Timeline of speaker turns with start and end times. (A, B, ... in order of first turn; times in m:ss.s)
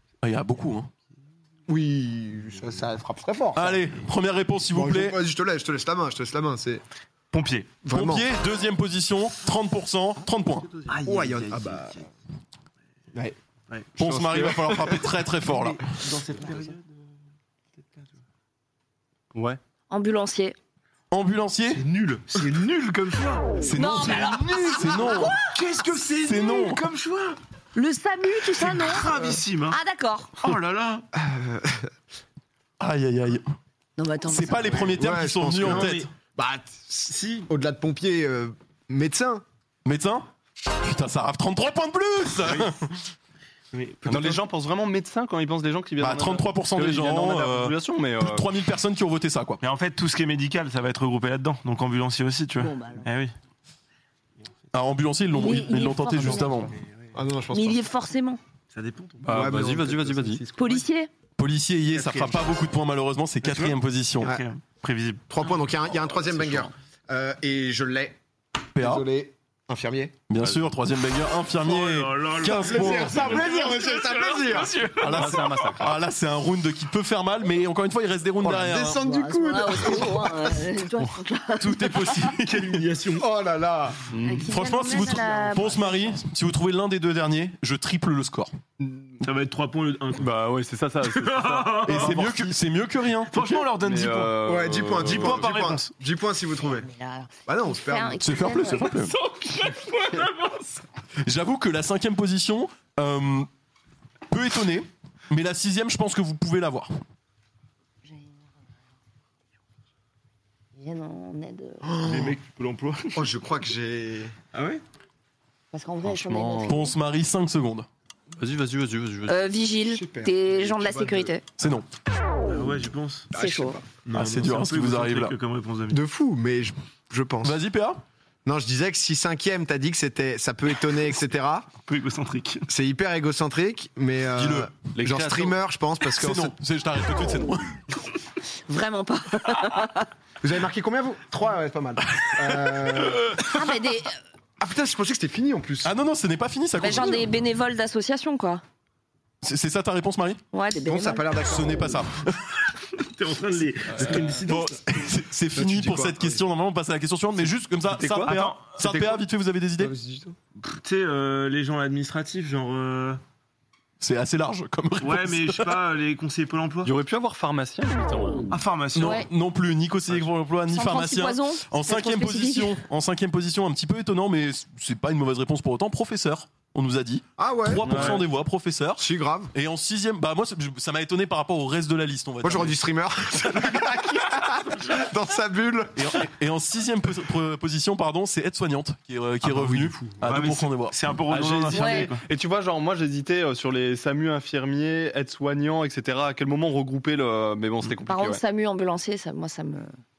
0:00.2-0:00.9 A
0:01.7-0:03.8 B
0:03.5-0:05.2 A
0:04.7-0:06.8 B
0:07.3-0:07.7 C
0:07.8-0:08.2 B
0:07.9-0:10.7 A
0:10.7-0:12.0 C
0:10.9-0:12.0 B
0:13.7-0:14.9 C
0:14.0-0:15.9 A
0:14.3-0:15.0 B
0:15.6-0:17.0 C
0:19.3-0:19.6 D
0:19.9-0:20.6 E
0:21.1-0:21.8 A
0:21.7-0:27.4 C
0:23.6-0:25.4 A
0:23.7-0:25.5 E
0:24.2-0:24.8 B
0:26.2-0:26.8 A
0:27.7-0:30.4 E
0:28.4-0:29.8 C
0:30.4-0:31.1 C
0:31.1-0:31.9 B
0:32.8-0:33.5 A
0:34.0-0:34.9 E
0:34.3-0:36.0 A
0:34.9-0:39.4 B
0:35.6-0:36.1 C
0:37.1-0:37.5 C
0:39.8-0:40.3 A
0:40.8-0:43.0 A
0:42.4-0:42.7 C
0:43.7-0:44.3 C
0:44.0-0:48.4 D
0:44.1-0:44.4 B
0:46.0-0:49.6 A
0:49.6-0:53.3 C
0:52.6-0:53.1 E
0:54.7-0:56.7 A
0:55.3-0:56.7 E
0:56.3-0:57.1 C
0:57.1-0:57.8 B
0:57.5-0:58.4 E
0:58.7-0:59.6 C
0:59.2-1:00.4 D
0:59.2-1:00.8 B
1:00.5-1:01.1 E
1:01.4-1:04.3 A
1:01.9-1:02.5 C
1:03.4-1:05.3 C
1:05.3-1:08.2 B
1:06.1-1:06.7 D
1:08.7-1:10.1 B
1:08.8-1:09.0 A
1:10.3-1:13.4 A
1:11.6-1:15.7 C
1:12.4-1:14.8 B
1:15.0-1:19.0 A
1:15.0-1:15.9 D
1:18.4-1:20.6 B
1:19.0-1:22.3 E
1:21.6-1:22.8 A
1:22.4-1:23.2 C
1:23.2-1:24.0 B
1:24.1-1:24.5 D
1:24.2-1:26.2 E
1:24.5-1:28.5 A
1:28.8-1:29.2 D
1:29.2-1:30.3 C
1:30.2-1:32.4 D
1:31.0-1:32.2 C
1:31.8-1:33.6 A
1:33.3-1:34.4 C
1:33.8-1:35.5 D
1:34.4-1:36.9 B
1:35.0-1:35.9 C
1:36.7-1:39.0 E
1:37.5-1:38.4 B
1:38.2-1:39.1 A
1:38.8-1:40.8 C
1:41.2-1:43.5 A
1:44.3-1:46.9 A
1:50.8-1:51.9 E
1:51.8-1:52.4 B
1:52.0-1:53.3 C
1:53.2-1:54.3 B
1:54.5-1:54.8 C
1:55.7-1:56.9 E
1:56.0-1:56.8 D
1:56.7-1:57.9 A
1:58.3-1:59.4 D
1:59.3-2:01.4 E
1:59.9-2:01.3 B
2:01.6-2:01.8 A
2:02.4-2:03.3 C
2:03.3-2:03.9 B
2:03.3-2:03.8 E
2:04.0-2:06.0 C
2:04.1-2:05.4 A
2:05.9-2:07.6 B
2:07.4-2:08.0 A
2:08.4-2:11.7 B
2:11.8-2:12.7 C
2:12.7-2:16.5 B
2:14.3-2:14.7 A
2:14.9-2:15.6 D
2:16.1-2:17.8 A
2:18.7-2:20.1 E
2:20.4-2:23.5 B
2:23.4-2:24.2 E
2:24.6-2:25.9 B
2:25.8-2:27.3 A
2:26.8-2:28.6 E
2:29.4-2:30.4 A
2:30.5-2:31.3 E
2:30.8-2:32.0 B
2:31.4-2:32.6 A
2:32.9-2:34.8 C
2:34.4-2:39.9 A
2:35.5-2:36.4 B
2:37.9-2:38.4 D
2:38.2-2:38.9 C
2:39.8-2:40.4 B
2:40.6-2:43.2 C
2:44.0-2:45.8 A
2:45.0-2:46.9 C
2:46.8-2:48.5 D
2:48.5-2:49.2 C
2:48.9-3:02.8 A
2:49.0-2:49.2 E
2:50.7-2:52.8 E
2:57.4-2:58.2 B
2:57.8-2:58.2 D
2:59.0-2:59.5 B
3:02.4-3:06.2 B
3:06.0-3:11.4 A
3:09.4-3:10.1 B
3:10.2-3:12.2 C
3:11.3-3:18.4 D
3:11.7-3:12.1 E
3:18.1-3:20.0 E